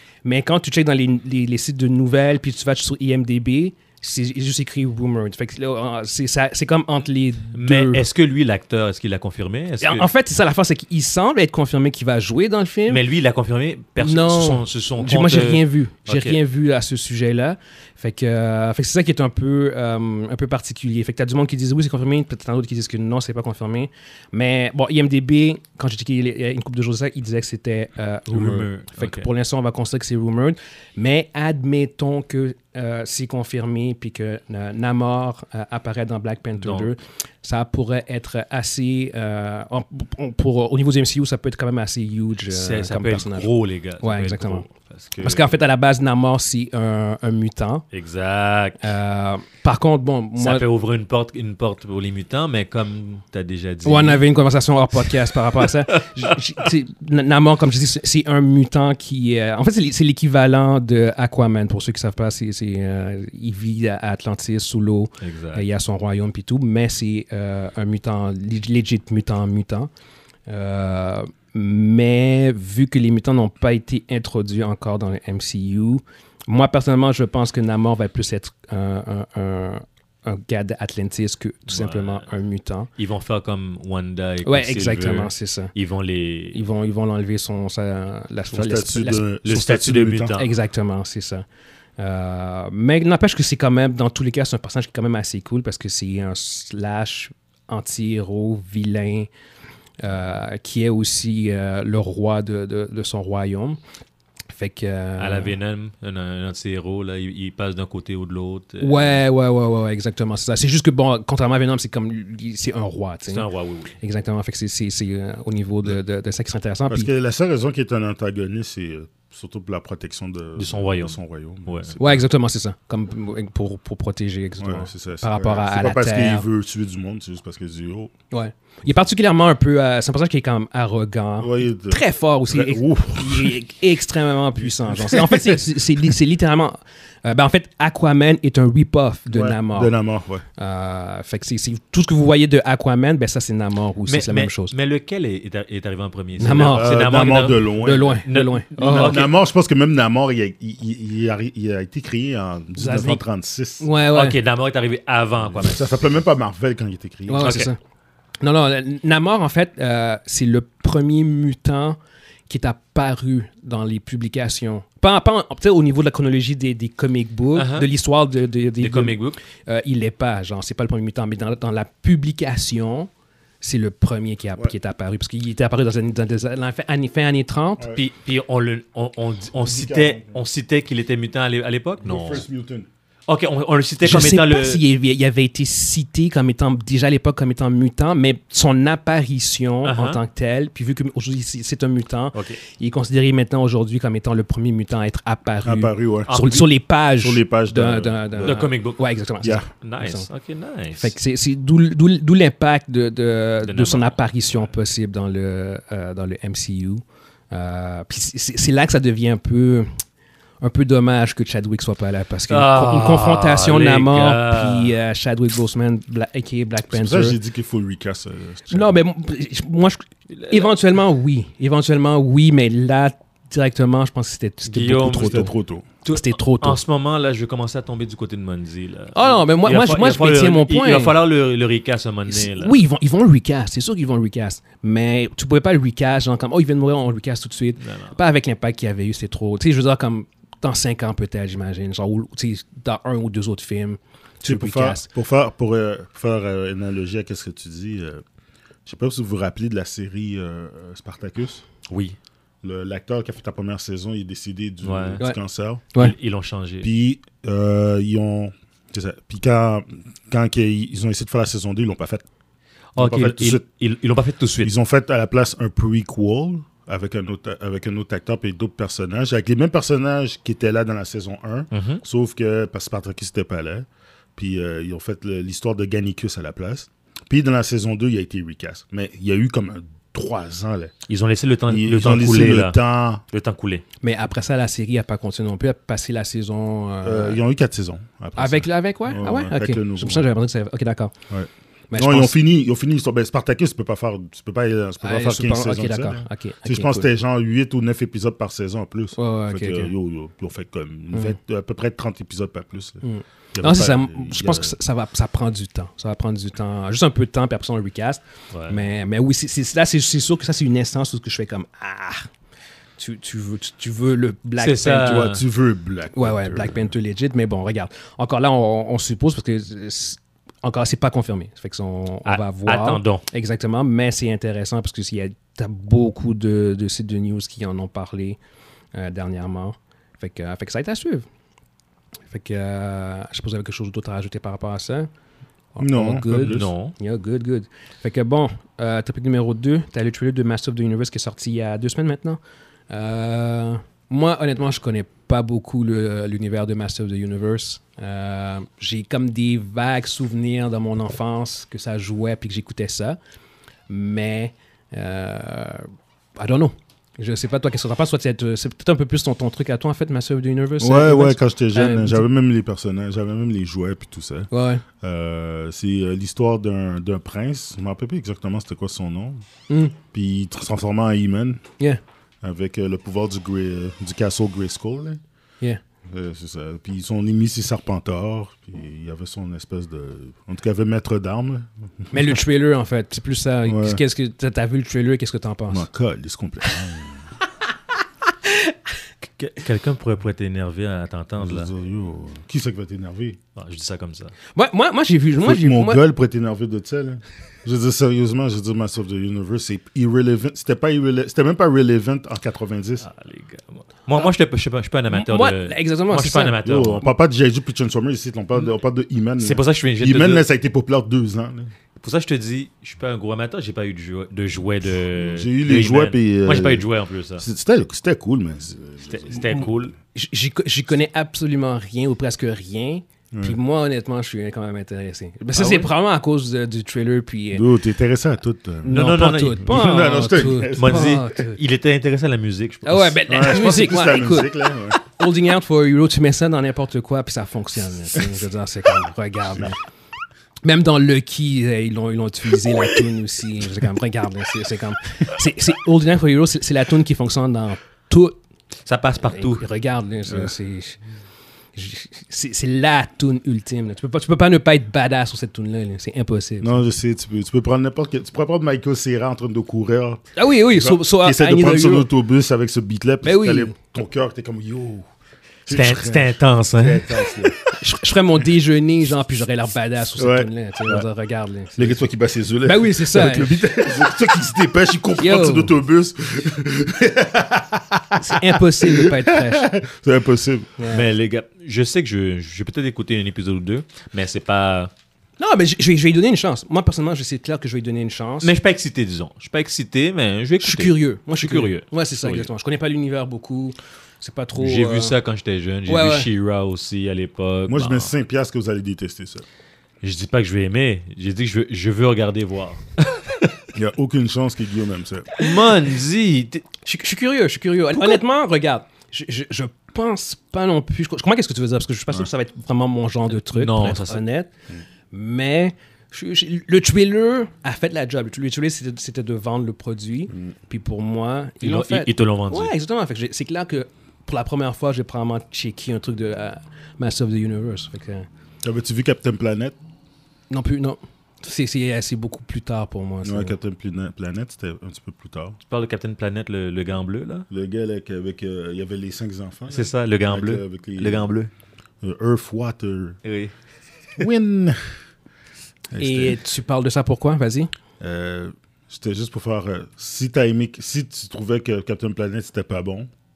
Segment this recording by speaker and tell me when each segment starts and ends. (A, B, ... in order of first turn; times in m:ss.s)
0:00.2-0:08.1 A
0:07.6-0:10.1 B
0:09.8-0:13.0 A
0:12.9-0:16.4 B
0:14.0-0:44.7 A
0:28.3-0:29.3 B
0:36.6-0:36.9 B
0:42.5-0:45.4 B
0:45.2-0:47.8 A
0:47.9-0:48.9 B
0:48.8-0:50.6 A
0:50.4-0:54.3 B
0:53.8-1:09.9 A
1:05.2-1:05.6 B
1:10.5-1:22.9 A
1:21.7-1:22.2 B
1:23.0-1:26.6 B
1:24.4-1:25.7 A
1:26.5-1:29.2 A
1:28.5-1:30.4 C
1:29.4-1:30.5 B
1:30.4-1:31.4 A
1:32.0-1:39.3 A
1:40.0-1:43.8 A
1:44.5-1:45.5 A
1:45.2-1:49.2 B
1:48.8-1:53.5 A
1:53.3-1:53.9 B
1:54.0-1:57.1 A
1:56.9-2:02.2 C
2:00.6-2:02.0 B
2:02.0-2:06.4 A
2:04.6-2:08.1 C
2:08.3-2:19.9 A
2:11.4-2:13.6 C
2:15.0-2:15.5 C
2:19.3-2:20.4 C
2:20.6-2:24.7 A
2:24.1-2:29.3 B
2:26.4-2:26.9 A
2:26.5-2:28.2 C
2:27.8-2:29.2 A
2:28.8-2:33.9 C
2:32.8-2:33.2 A
2:33.8-2:34.4 A
2:34.1-2:35.9 B
2:35.5-2:37.5 C
2:37.3-2:37.8 A
2:37.4-2:37.7 B
2:38.4-2:42.0 A
2:42.5-2:53.1 A
2:47.6-2:47.9 B
2:48.8-2:49.4 B
2:53.6-2:57.9 A
2:58.0-3:02.4 B
2:59.6-3:00.4 C
3:02.0-3:02.9 C
3:03.3-3:04.8 B
3:04.0-3:20.3 A
3:09.8-3:10.2 B
3:15.6-3:16.3 C
3:16.3-3:16.7 B
3:17.2-3:18.7 C
3:18.4-3:19.0 B
3:19.7-3:21.1 B
3:21.0-3:29.9 A
3:23.7-3:24.2 B
3:30.6-3:37.4 A
3:32.5-3:35.0 B
3:36.9-3:38.9 C
3:38.7-3:45.5 A
3:40.3-3:40.7 B
3:44.7-3:45.4 B
3:45.2-3:45.9 C
3:46.0-3:46.8 A
3:46.0-3:52.7 B
3:49.2-3:51.2 A
3:52.3-4:05.1 A
3:57.8-3:58.2 B
4:04.4-4:08.2 C
4:08.8-4:11.6 C
4:11.9-4:12.2 B
4:12.6-4:16.0 C
4:14.8-4:15.2 B
4:16.0-4:16.9 B
4:16.8-4:22.2 C
4:23.0-4:24.7 B
4:23.0-4:23.6 C
4:24.6-4:40.9 C
4:31.7-4:32.0 B
4:41.1-4:42.8 B
4:41.7-4:43.2 C
4:43.3-4:43.8 B
4:44.0-4:47.4 A
4:47.0-4:50.3 C
4:48.4-4:51.1 A
4:51.3-5:04.8 C
4:51.9-4:52.4 A
4:55.0-4:57.1 A
4:59.2-4:59.9 A
5:03.0-5:12.3 A
5:08.5-5:08.9 B
5:13.0-5:15.4 A
5:14.6-5:15.4 B
5:15.0-5:16.9 C
5:16.1-5:28.4 A
5:22.3-5:23.2 B
5:28.9-5:31.3 A
5:32.3-5:35.1 A
5:35.8-5:53.2 A
5:35.8-5:36.7 C
5:36.5-5:36.9 B
5:53.9-6:02.3 A
6:00.8-6:04.5 C
6:04.5-6:04.8 A
6:05.0-6:09.4 C
6:09.7-6:10.0 A
6:10.1-6:11.6 C
6:12.4-6:15.2 C
6:16.1-6:22.3 C
6:22.1-6:25.8 A
6:23.7-6:24.0 C
6:25.7-6:27.2 C
6:28.3-6:28.8 A
6:29.4-6:31.7 B
6:31.4-6:33.4 C
6:33.6-6:34.3 B
6:34.6-6:36.0 A
6:35.4-6:43.0 C
6:43.0-6:47.1 B
6:45.1-6:46.6 A
6:46.6-6:51.7 C
6:49.4-6:50.4 B
6:52.0-6:57.4 B
6:55.2-6:56.9 C
6:57.4-6:59.7 C
6:59.0-7:00.0 B
7:00.2-7:07.6 A
7:03.3-7:03.6 C
7:05.6-7:05.9 B
7:07.5-7:09.0 C
7:08.8-7:11.6 A
7:08.9-7:09.7 B
7:09.6-7:11.2 C
7:10.7-7:13.2 B
7:12.8-7:19.8 A
7:13.3-7:15.0 C
7:20.6-7:28.4 A
7:28.8-7:29.6 B
7:29.3-7:31.0 A
7:31.8-7:36.8 A
7:36.6-7:45.1 C
7:40.4-7:42.1 A
7:43.2-7:43.8 A
7:45.7-7:47.6 C
7:45.7-7:47.1 B
7:47.7-7:52.0 A
7:50.2-7:51.0 C
7:51.8-8:00.7 C
7:52.6-7:54.0 A
7:55.2-7:55.7 A
7:58.2-7:59.7 A
8:00.8-8:01.0 A
8:00.9-8:04.9 B
8:05.4-8:08.5 A
8:08.4-8:12.5 B
8:10.6-8:15.2 A
8:14.6-8:18.1 B
8:15.9-8:16.3 A
8:17.7-8:19.4 C
8:20.0-8:23.5 B
8:23.7-8:25.3 C
8:25.4-8:26.6 B
8:26.8-8:34.5 A
8:33.5-8:34.2 B
8:35.1-8:48.3 A
8:41.6-8:42.7 B
8:48.6-8:49.8 C
8:50.5-8:53.6 A
8:53.2-8:55.6 C
8:55.7-8:57.5 B
8:57.5-9:01.3 C
8:59.7-9:01.5 B
9:02.0-9:03.2 C
9:03.2-9:03.5 B
9:04.2-9:04.8 C
9:05.9-9:06.4 C
9:06.0-9:07.7 A
9:08.0-9:13.1 C